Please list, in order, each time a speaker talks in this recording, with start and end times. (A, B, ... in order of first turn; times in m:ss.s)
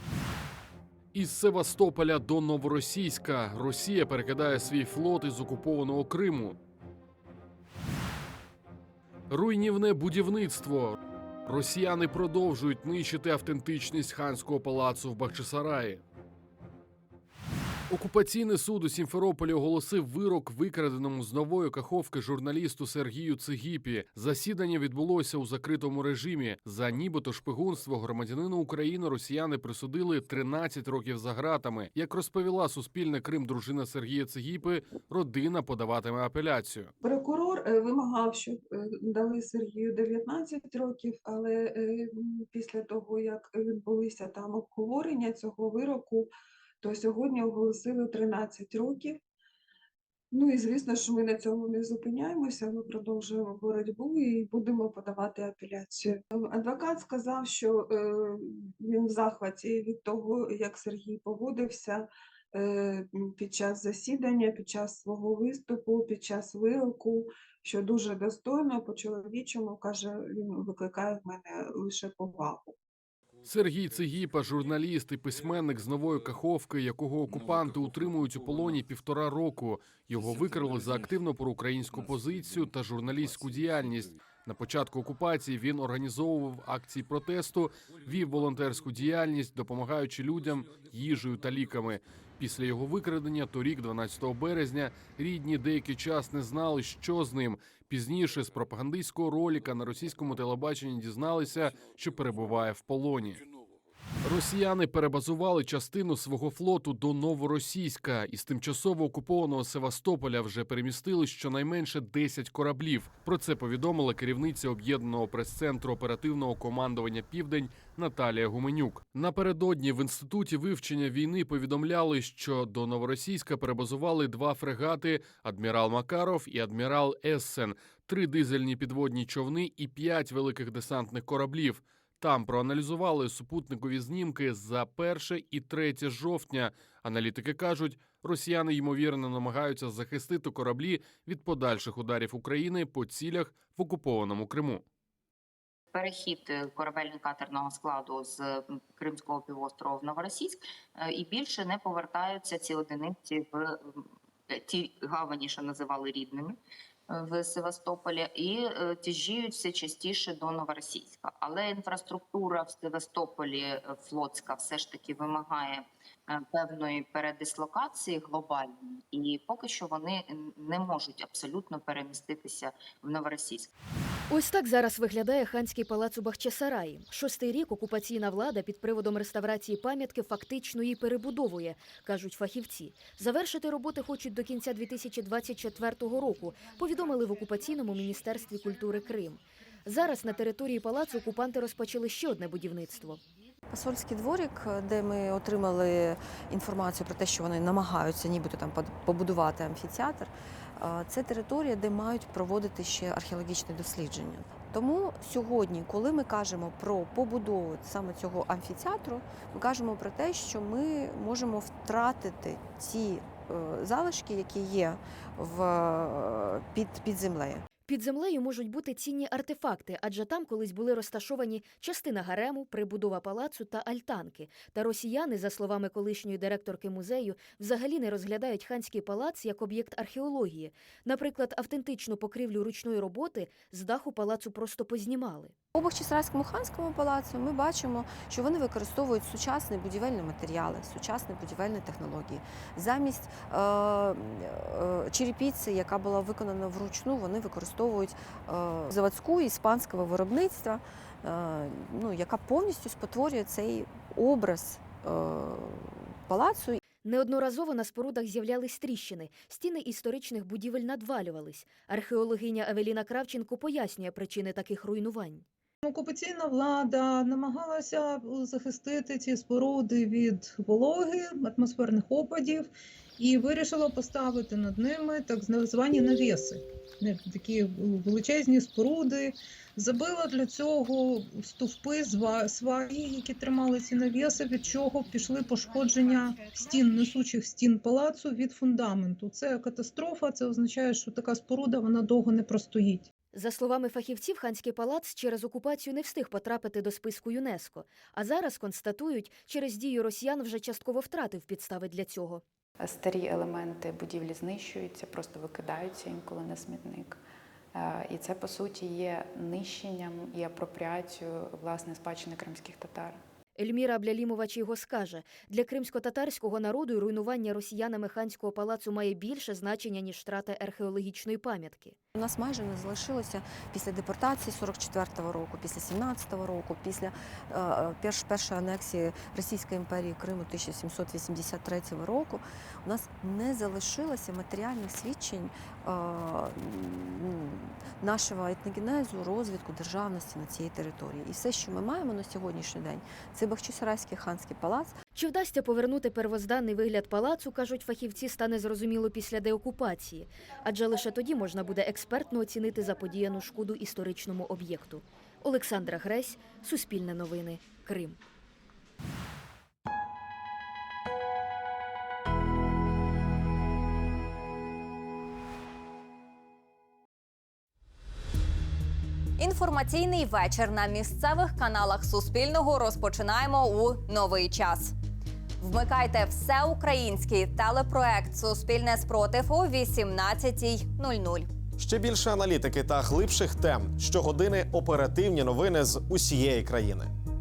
0:01.1-0:06.6 A
0:09.3-0:16.0 A
0:17.9-0:36.9 A
0:37.0-0:46.3 B
0:46.8-0:49.2 B
0:50.3-1:12.7 B
1:13.4-1:43.4 A
1:44.2-2:24.8 A
2:25.9-2:34.0 C
2:34.5-2:36.6 C
2:37.1-2:53.7 C
2:54.3-3:13.2 D
3:13.7-3:37.6 E
3:37.9-3:55.5 D
3:55.8-4:16.8 E
4:17.0-4:25.4 D
4:25.8-4:53.1 F
4:53.3-5:02.4 D
5:02.8-5:07.2 G
5:07.7-5:13.2 G
5:13.6-5:22.0 D
5:22.2-5:45.0 E
5:45.1-5:58.2 D
6:09.4-6:14.9 H
6:15.6-6:21.5 H
6:21.8-6:27.1 I